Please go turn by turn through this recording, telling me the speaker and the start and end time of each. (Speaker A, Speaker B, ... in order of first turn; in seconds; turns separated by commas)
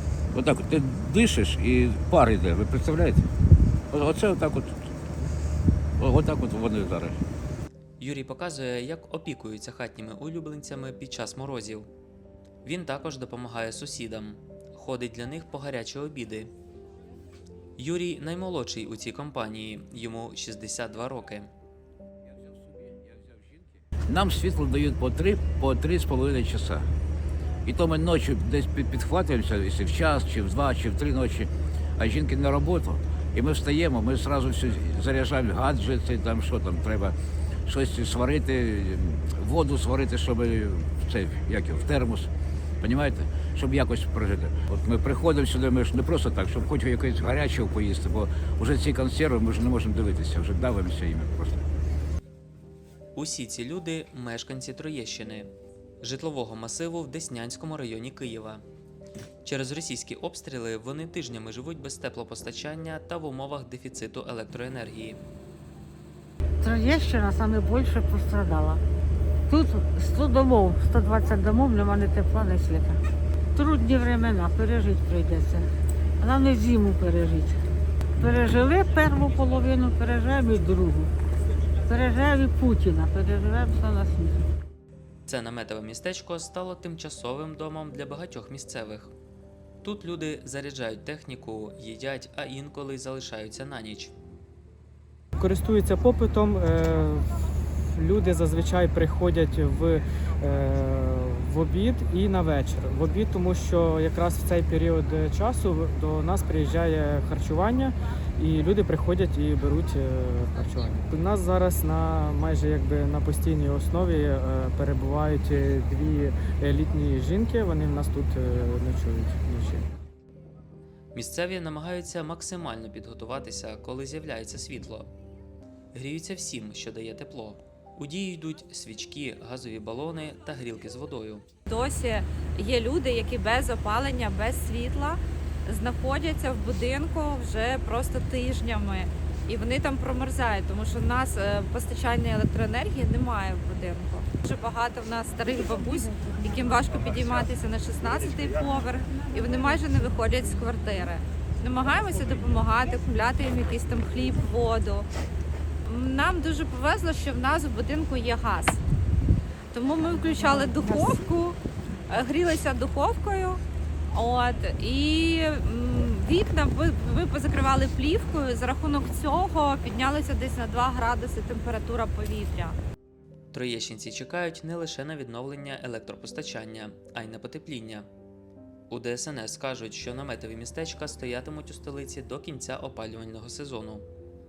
Speaker A: 0.3-3.3, Speaker A: 3.9-4.7, Speaker A: 6.0-7.2, Speaker B: 8.0-11.9, Speaker B: 12.6-16.5, Speaker B: 17.8-21.5, Speaker A: 22.3-26.9, Speaker A: 27.6-37.1, Speaker A: 37.7-42.3, Speaker A: 42.8-51.6, Speaker B: 53.1-58.6, Speaker B: 59.4-65.2, Speaker C: 66.6-68.8, Speaker C: 69.5-73.0, Speaker C: 73.5-75.6, Speaker C: 76.2-77.6, Speaker C: 78.2-81.1, Speaker C: 81.9-84.4, Speaker B: 85.2-89.1, Speaker B: 89.8-94.1, Speaker D: 95.4-97.3, Speaker D: 97.9-119.9, Speaker B: 121.1-125.1, Speaker B: 125.9-131.4, Speaker E: 131.7-155.1, Speaker E: 155.8-158.8, Speaker E: 159.7-172.8, Speaker B: 173.5-178.1, Speaker B: 178.9-184.1